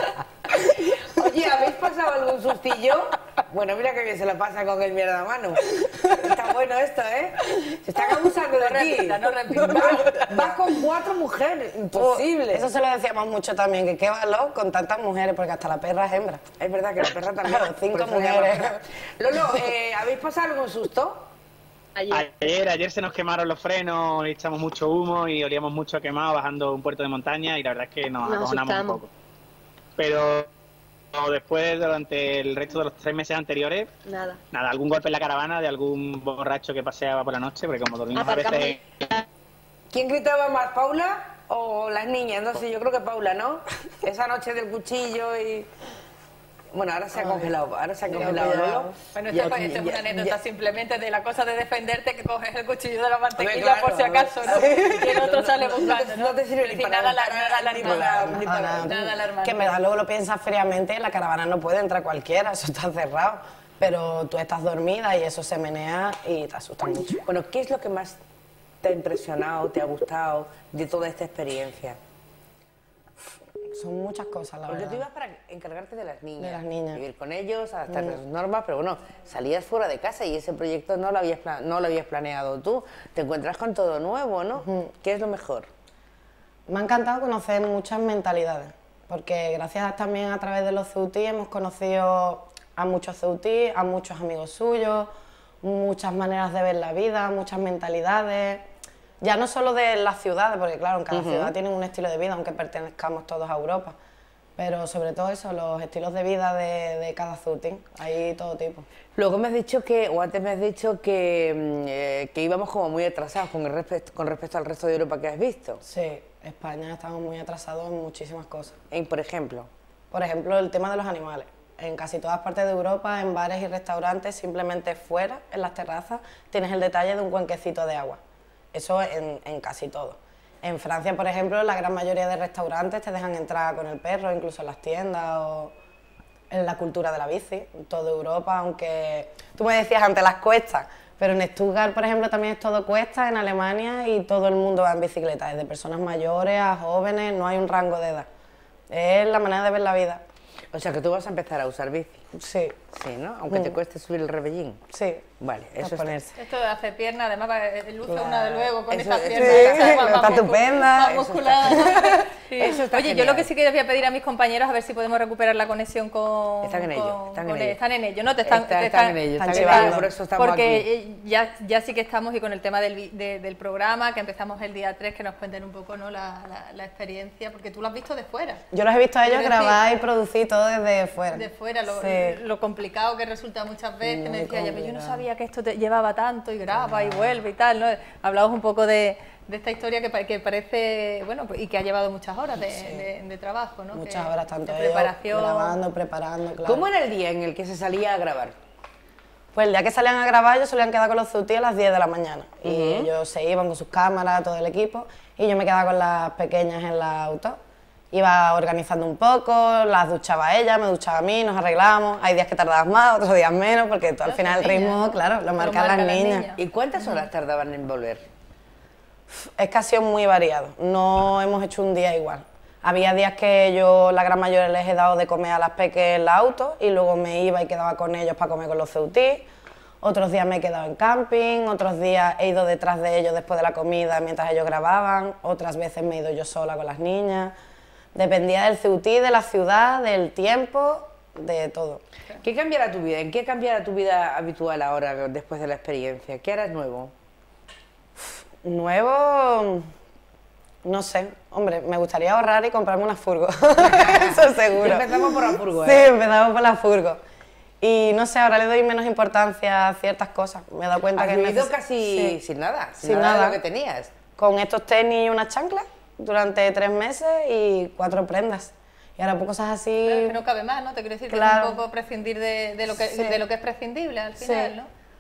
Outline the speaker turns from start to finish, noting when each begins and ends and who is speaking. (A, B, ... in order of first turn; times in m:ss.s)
0:00.6-0:12.7 A
0:05.8-0:06.2 B
0:08.6-0:10.6 C
0:11.9-0:16.5 B
0:16.6-0:21.2 A
0:17.4-0:19.7 B
0:22.0-0:22.3 D
0:22.1-0:29.1 E
0:28.2-0:29.0 D
0:30.0-0:30.5 E
0:31.1-0:33.9 E
0:34.0-0:34.4 D
0:34.5-0:39.1 E
0:38.1-0:39.2 D
0:39.9-0:45.7 A
0:46.7-0:50.3 A
0:47.1-0:49.0 B
0:49.1-0:59.7 C
0:53.4-0:59.0 A
0:54.6-0:54.9 B
0:57.8-1:07.2 B
1:07.2-1:08.2 A
1:08.8-1:12.0 A
1:13.6-1:15.0 B
1:14.7-1:25.7 A
1:16.4-1:17.0 B
1:17.9-1:18.2 B
1:24.6-1:24.9 B
1:26.7-1:38.6 B
1:39.2-1:44.0 B
1:41.1-1:41.5 A
1:44.6-1:48.8 B
1:49.2-1:55.8 A
1:55.8-1:58.8 B
1:58.9-1:59.7 A
2:00.1-2:08.2 B
2:08.7-2:15.7 B
2:16.5-2:28.3 B
2:28.9-2:30.2 B
2:30.7-2:32.3 A
2:32.3-2:32.8 B
2:32.9-2:34.8 A
2:33.5-2:33.8 B
2:34.9-2:36.4 B
2:35.4-2:36.1 A
2:36.4-2:58.6 C
2:38.1-2:38.7 B
2:38.9-2:43.5 A
2:39.3-2:42.2 B
2:46.6-2:47.8 A
2:48.4-2:50.8 A
2:49.4-2:50.1 B
2:58.7-3:02.4 B
2:59.2-2:59.8 C
3:01.3-3:15.8 C
3:04.0-3:05.2 B
3:06.7-3:07.4 B
3:12.6-3:13.1 B
3:13.9-3:16.9 B
3:16.6-3:18.6 A
3:19.5-3:27.6 B
3:22.6-3:23.1 A
3:28.1-3:36.5 B
3:34.2-3:37.2 C
3:36.6-3:38.2 A
3:39.3-3:49.5 B
3:50.0-3:57.5 B
3:58.1-4:02.0 B
4:02.4-4:07.1 A
4:08.2-4:09.9 B
4:10.8-4:17.2 B
4:13.8-4:16.1 A
4:17.8-4:22.4 B
4:21.2-4:24.2 A
4:23.0-4:23.6 B
4:24.4-4:30.4 B
4:30.0-4:34.9 C
4:31.3-4:31.8 B
4:32.9-4:33.4 B
4:34.4-4:34.7 B